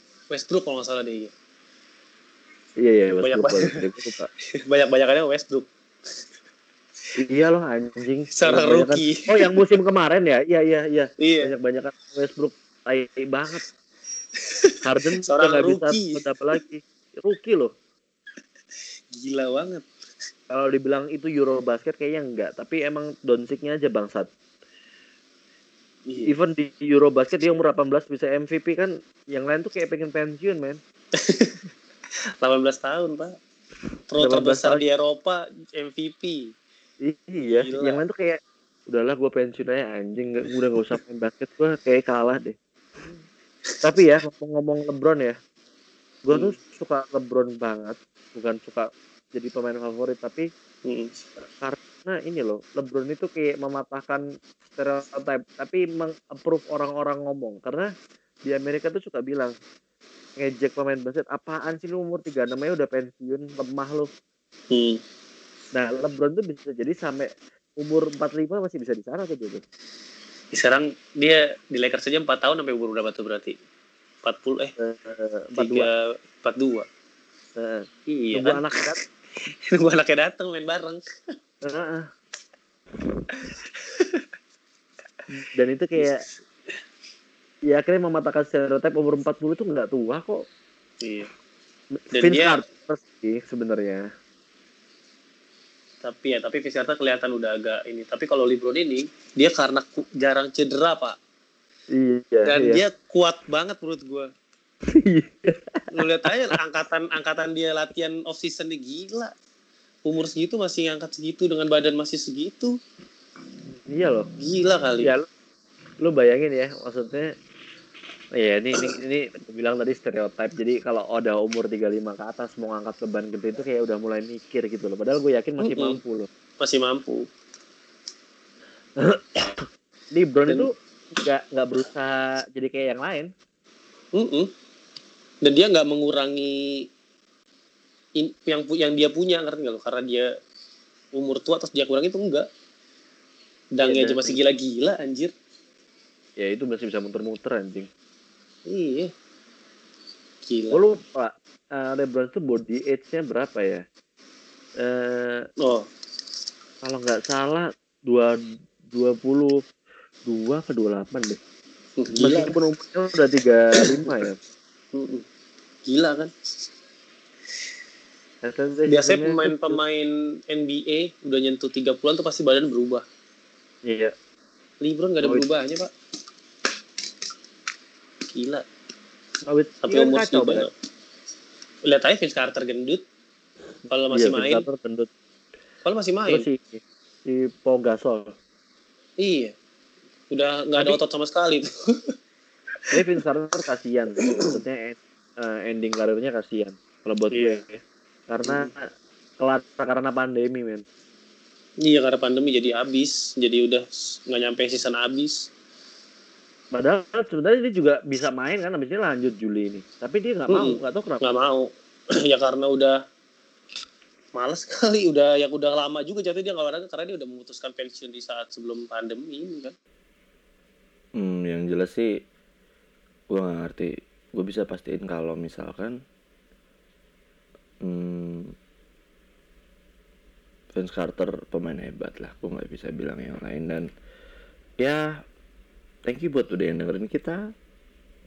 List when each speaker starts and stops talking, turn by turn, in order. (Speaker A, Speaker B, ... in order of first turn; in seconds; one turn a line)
Speaker A: 0.3-1.3
Speaker B: 2.8-4.3
Speaker A: 3.2-3.8
Speaker A: 4.5-5.7
Speaker B: 7.2-13.6
Speaker A: 8.3-9.7
Speaker A: 11.2-11.5
Speaker A: 14.4-14.7
Speaker B: 14.8-17.7
Speaker A: 15.3-16.2
Speaker A: 19.1-19.9
Speaker B: 20.5-24.3
Speaker A: 26.1-26.4
Speaker B: 26.2-30.8
Speaker A: 31.2-31.6
Speaker A: 32.4-33.4
Speaker A: 34.1-36.5
Speaker B: 34.2-34.8
Speaker B: 37.0-42.6
Speaker A: 37.5-38.0
Speaker B: 43.8-45.4
Speaker B: 46.2-50.5
Speaker A: 50.9-51.1
Speaker B: 51.5-57.9
Speaker B: 58.5-59.5
Speaker B: 60.4-64.1
Speaker A: 64.7-65.0
Speaker B: 65.7-69.6
Speaker A: 70.5-73.6
Speaker A: 74.2-74.7
Speaker B: 74.8-75.9
Speaker A: 75.6-76.9
Speaker B: 77.6-79.0
Speaker A: 78.1-81.0
Speaker B: 81.6-82.1
Speaker A: 83.3-84.2
Speaker B: 85.3-86.2
Speaker B: 87.7-90.4
Speaker A: 91.0-91.3
Speaker B: 92.1-94.0
Speaker A: 92.1-92.6
Speaker A: 96.0-101.2
Speaker B: 101.9-102.8
Speaker A: 102.5-104.3
Speaker B: 104.9-106.6
Speaker A: 105.9-109.3
Speaker A: 110.1-112.8
Speaker B: 113.7-114.3
Speaker A: 114.4-115.1
Speaker B: 115.0-115.3
Speaker B: 116.0-117.3
Speaker B: 118.4-126.3
Speaker A: 125.6-126.0
Speaker A: 126.6-127.3
Speaker B: 129.0-133.3
Speaker A: 134.1-134.5
Speaker A: 135.4-136.8
Speaker A: 138.2-140.3
Speaker A: 141.1-142.5
Speaker A: 143.8-145.3
Speaker B: 143.8-144.4
Speaker B: 146.4-147.9
Speaker A: 148.7-149.1
Speaker A: 150.5-150.8
Speaker B: 150.7-153.8
Speaker B: 154.8-155.5
Speaker A: 155.6-155.9
Speaker B: 156.8-158.4
Speaker B: 158.9-159.6
Speaker B: 160.3-161.4
Speaker A: 162.0-162.6
Speaker B: 162.2-164.4
Speaker A: 163.8-164.1
Speaker A: 164.9-165.2
Speaker A: 165.9-166.3
Speaker B: 168.4-169.8
Speaker A: 168.9-173.0
Speaker B: 173.8-174.1
Speaker A: 174.8-175.9
Speaker A: 178.3-178.7
Speaker B: 179.5-180.7
Speaker A: 179.8-180.7
Speaker A: 181.8-183.0
Speaker A: 183.9-184.7
Speaker B: 184.1-185.1
Speaker A: 185.8-186.5
Speaker B: 186.3-188.3
Speaker A: 189.2-189.5
Speaker A: 190.3-191.7
Speaker B: 192.9-198.9
Speaker A: 197.3-197.6
Speaker A: 198.4-198.7
Speaker B: 199.4-200.8
Speaker A: 201.8-205.5
Speaker B: 206.7-211.3
Speaker A: 210.5-213.0
Speaker A: 214.3-219.7
Speaker C: 221.2-222.1
Speaker C: 223.3-226.0
Speaker C: 227.8-228.5
Speaker C: 230.7-233.9
Speaker C: 234.8-235.2
Speaker C: 236.0-237.5